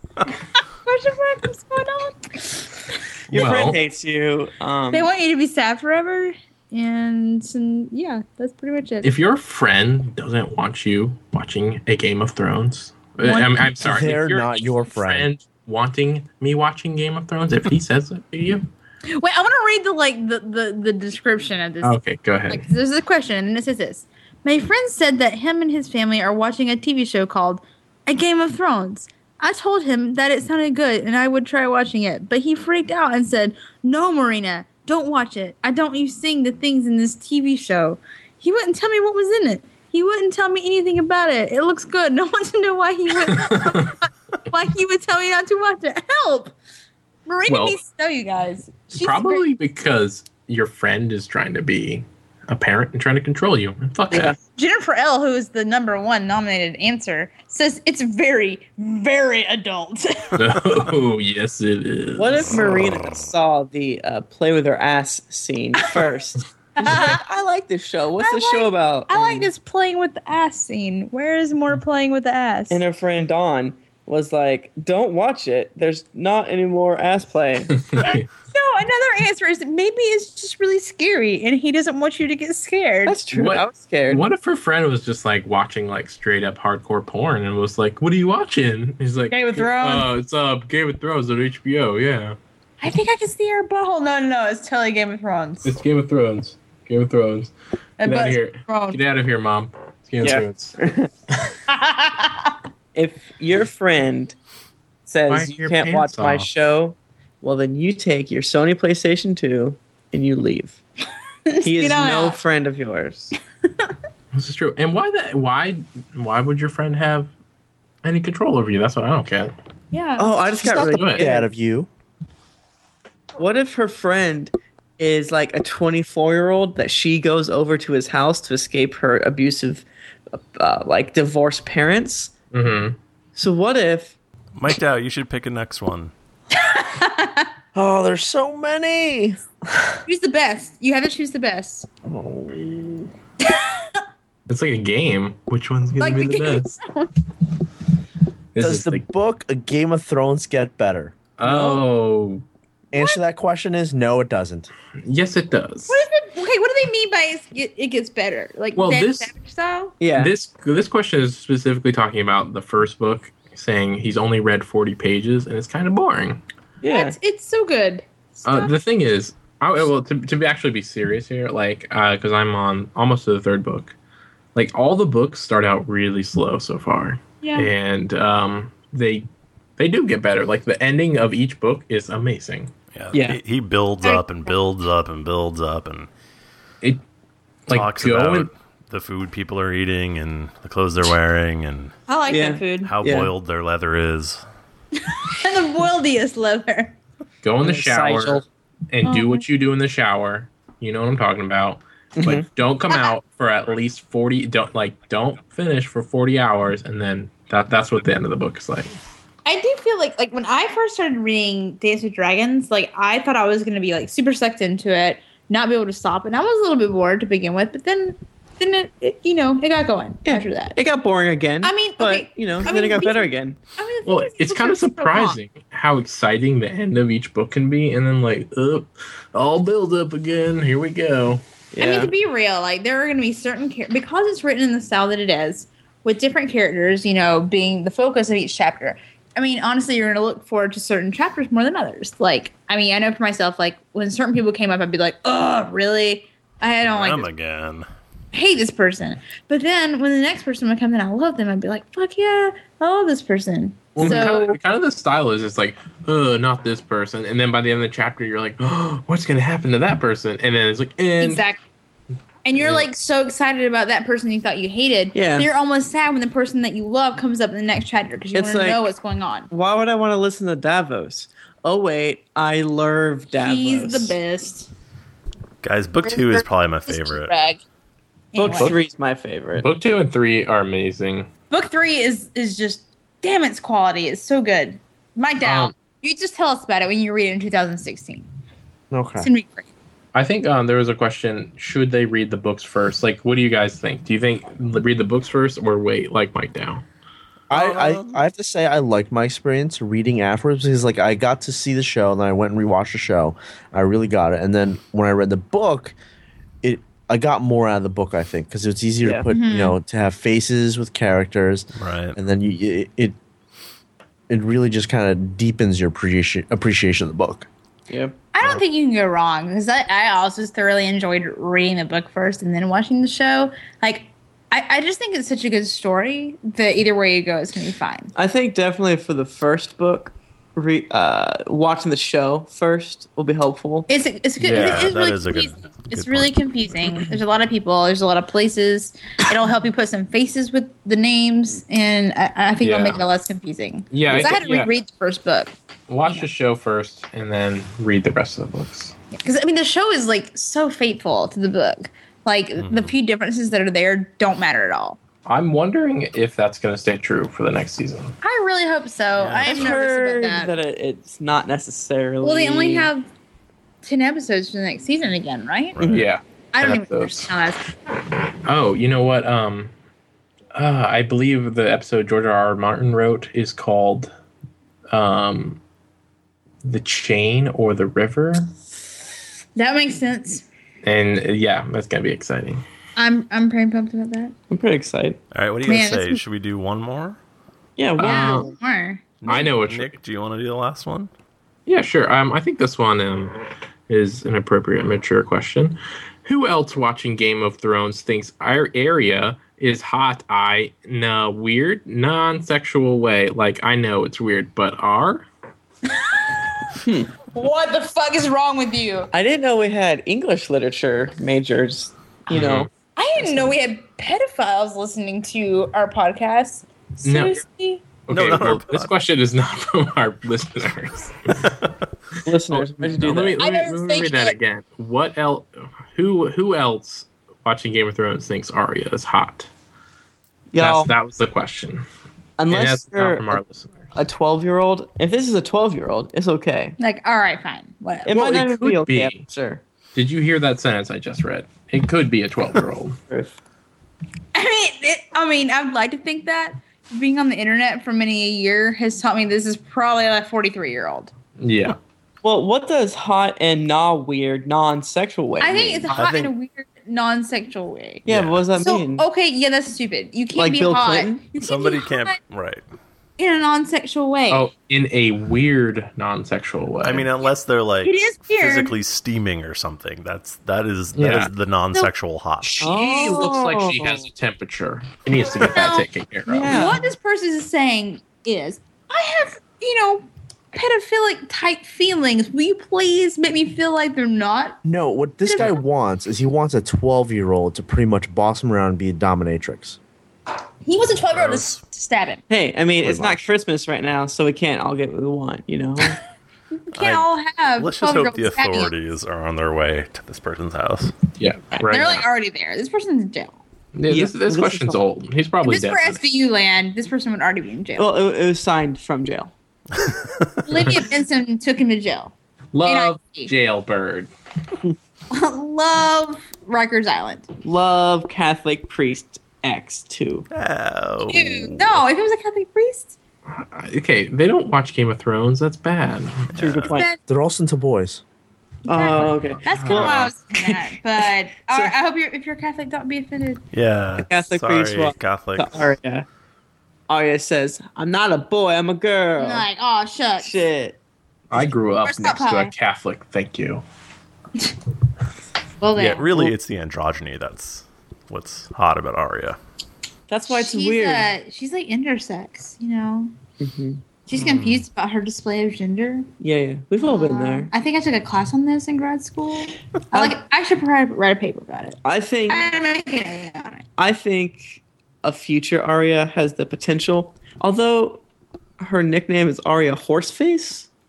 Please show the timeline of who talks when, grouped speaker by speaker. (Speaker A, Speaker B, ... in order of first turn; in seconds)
Speaker A: 0.8-2.8, 4.9-9.1, 13.2-13.7, 19.1-46.5, 47.2-49.4, 54.5-60.4, 66.8-67.2, 68.2-72.8, 78.0-83.2, 89.3-90.1, 92.8-95.8, 98.0-99.0, 101.7-102.5, 111.5-112.4, 119.9-120.4, 136.6-137.5, 140.1-141.9, 143.4-144.0, 146.0-147.1, 152.9-153.2, 155.9-159.9, 166.9-168.7, 177.4-177.7, 192.1-192.9, 195.0-196.9, 199.0-199.4, 209.4-220.8, 221.6-225.4, 231.8-247.3, 248.3-254.6, 261.2-261.6, 262.4-269.5, 273.4-274.7, 276.0-277.6, 278.3-278.8, 281.5-288.3, 289.2-289.7, 309.3-309.7, 318.3-328.1, 333.9-345.5, 349.1-355.0, 358.2-360.5, 362.2-363.1, 363.8-365.8, 366.5-367.6, 379.6-380.4, 382.9-384.3, 385.6-386.2, 388.0-389.4, 405.9-409.1, 412.9-417.8, 423.4-424.3, 436.8-438.2, 444.3-451.1, 455.4-462.1, 463.2-464.5, 467.8-468.7, 475.4-475.9, 476.4-484.6, 485.2-485.6, 490.6-492.2, 496.7-498.7, 501.6-503.4, 505.4-507.9, 510.4-512.1, 512.6-513.3, 515.1-517.3, 521.1-522.9, 526.7-527.0, 528.7-533.4, 539.2-540.4, 541.8-542.5, 545.6-546.3, 550.3-553.1, 554.1-556.1, 556.9-563.6
Speaker B: 3.3-5.1, 54.1-54.4, 62.2-69.5, 72.7-77.9, 83.0-84.2, 100.2-101.1, 102.9-104.3, 105.0-110.8, 111.6-113.3, 120.2-121.5, 123.3-132.3, 133.3-134.1, 151.5-151.8, 160.0-160.3, 166.8-167.2, 183.1-183.4, 192.3-193.3, 197.6-198.4, 202.2-202.5, 220.2-223.6, 231.7-232.1, 265.1-265.5, 268.3-268.8, 269.5-274.1, 278.4-279.7, 317.9-318.2, 328.1-333.9, 359.4-362.9, 365.8-366.1, 384.5-385.2, 387.8-388.5, 406.8-407.1, 409.1-413.5, 422.2-423.4, 430.5-430.9, 432.4-433.4, 433.9-436.8, 438.0-439.6, 443.1-443.3, 452.2-456.0, 458.0-459.1, 460.3-461.3, 472.6-474.0, 476.3-476.9, 492.3-496.0, 503.9-504.8, 507.8-509.3, 517.4-520.2, 526.4-526.9, 528.6-530.1, 531.5-531.7, 533.9-536.0, 536.9-539.5, 540.2-540.8, 550.1-551.1, 553.4-553.8, 556.2-557.5, 561.8-562.5, 563.8-568.0, 568.6-570.7
Speaker C: 3.3-3.8, 9.0-18.6, 21.8-22.6, 43.3-43.9, 47.5-47.8, 48.9-54.4, 60.3-62.9, 77.8-78.3, 83.3-92.4, 95.6-100.7, 105.3-106.5, 114.3-117.3, 118.0-119.5, 120.8-121.3, 132.5-133.0, 144.5-146.7, 148.5-149.0, 151.4-152.4, 155.0-156.0, 158.8-159.3, 160.1-166.4, 168.4-173.9, 174.5-182.7, 187.7-188.5, 197.4-209.0, 224.0-231.4, 253.9-261.4, 262.6-262.9, 278.5-278.8, 279.6-281.3, 285.4-285.7, 290.1-296.8, 334.4-334.9, 342.6-343.0, 343.9-344.7, 345.9-348.9, 355.2-358.1, 365.9-367.3, 368.4-369.7, 370.5-374.1, 374.9-375.6, 376.6-378.5, 380.8-382.6, 388.0-388.5, 389.2-390.0, 391.6-393.4, 393.9-405.2, 412.3-412.7, 417.0-417.4, 418.1-421.5, 422.5-429.5, 430.6-431.8, 432.5-433.9, 438.1-439.3, 439.9-443.0, 451.4-451.8, 464.3-467.1, 470.9-471.3, 472.4-476.8, 501.2-502.1, 503.7-506.0, 512.5-514.1, 523.3-526.4, 541.3-543.6, 554.1-554.6
Speaker D: 13.8-15.3, 120.6-121.9, 137.7-140.0, 142.0-143.1, 148.6-151.2, 152.9-154.7, 288.9-289.3, 297.5-305.9, 306.6-313.1, 314.3-317.5, 484.6-489.8, 527.1-528.0
Speaker E: 134.6-136.1, 182.9-186.1, 187.7-191.9, 192.8-194.4, 246.8-247.8, 275.6-277.3, 297.5-298.2, 311.8-312.2, 334.5-336.4, 352.6-352.9, 359.2-359.6, 365.8-366.0, 385.3-387.2, 389.2-391.1, 418.1-418.9, 455.9-456.3, 458.1-458.4, 461.4-462.6, 466.8-472.5, 491.1-491.6, 496.7-501.0, 509.7-510.8, 520.3-521.8, 526.3-526.8, 529.5-530.1, 533.5-535.7, 545.7-549.4